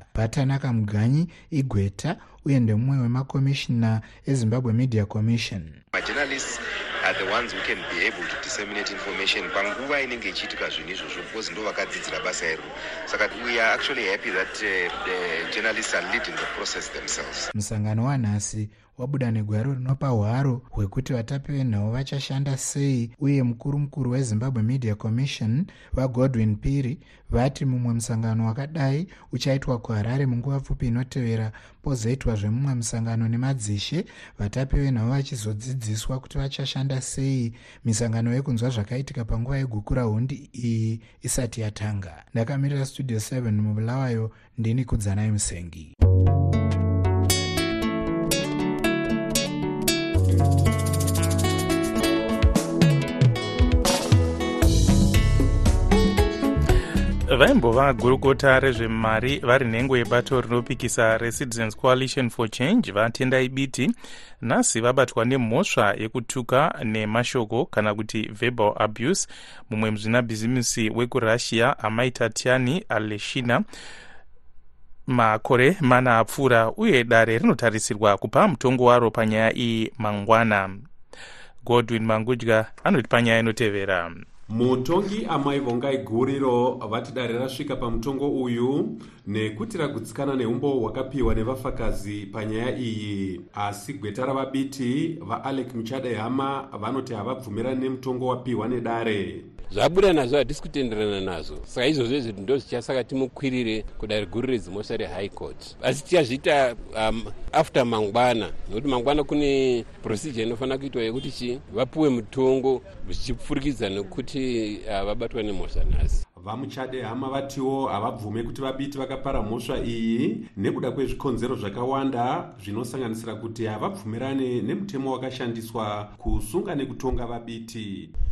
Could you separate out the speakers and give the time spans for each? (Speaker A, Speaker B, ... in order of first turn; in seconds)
Speaker A: 0.1-5.8, 17.5-45.9
Speaker B: 5.9-17.5
Speaker C: 57.3-73.6, 75.1-80.8, 81.7-84.2
Speaker D: 84.5-99.5, 116.4-128.1
Speaker E: 99.7-116.2